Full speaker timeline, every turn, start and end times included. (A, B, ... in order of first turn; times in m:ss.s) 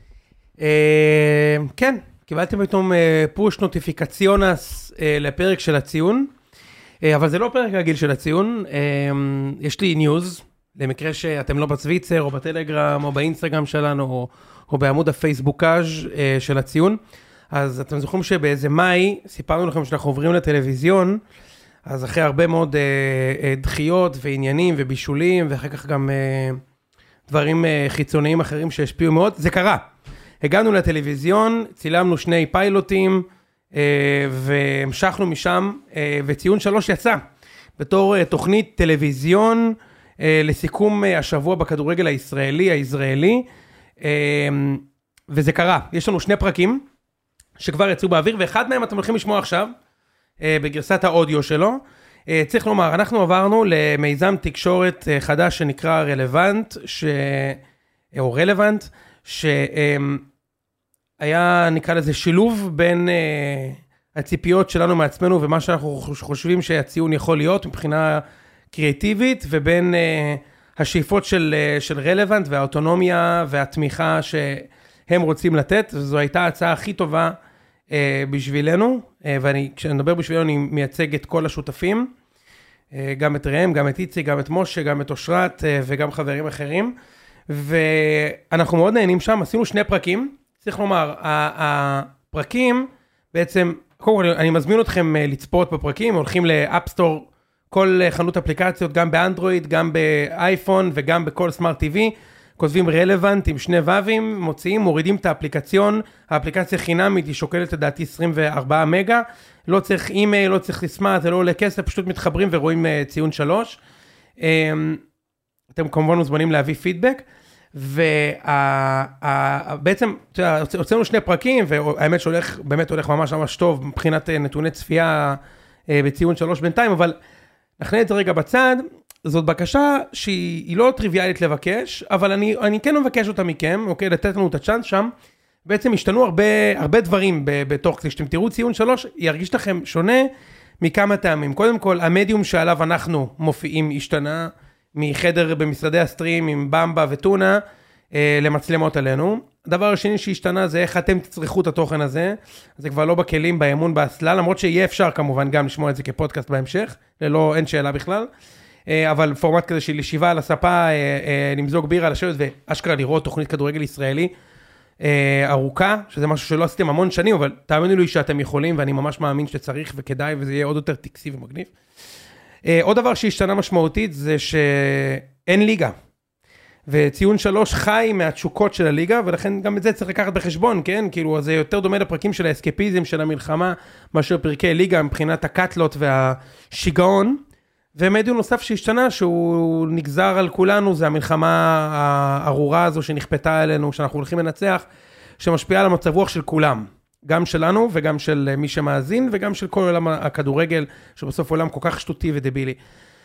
0:00.6-0:06.3 A
0:07.0-0:17.0 A
0:17.5-0:21.2 A
0:21.8-0:26.6 A
0:27.3-0:29.8 A
0:30.4-0:37.2 A
0:37.8-0:43.5 A
0:44.0-0:46.8 A
0:47.6-0:49.7 A
0:50.4-0:57.6 A
0:58.1-1:00.2 A
1:01.2-1:17.4 A
1:17.9-1:22.1 A
1:22.9-1:26.9 A
1:27.5-1:53.8 A
1:54.4-1:55.0 A
1:55.7-1:57.2 A
1:57.7-2:07.2 A
2:07.8-2:15.1 A
2:15.6-2:20.3 A
2:20.8-2:27.6 A
2:28.1-2:38.3 A
2:38.9-2:44.3 A
2:45.0-2:51.7 A
2:52.6-2:55.9 A
2:56.9-3:07.4 A
3:08.0-3:14.8 A
3:15.4-3:22.8 A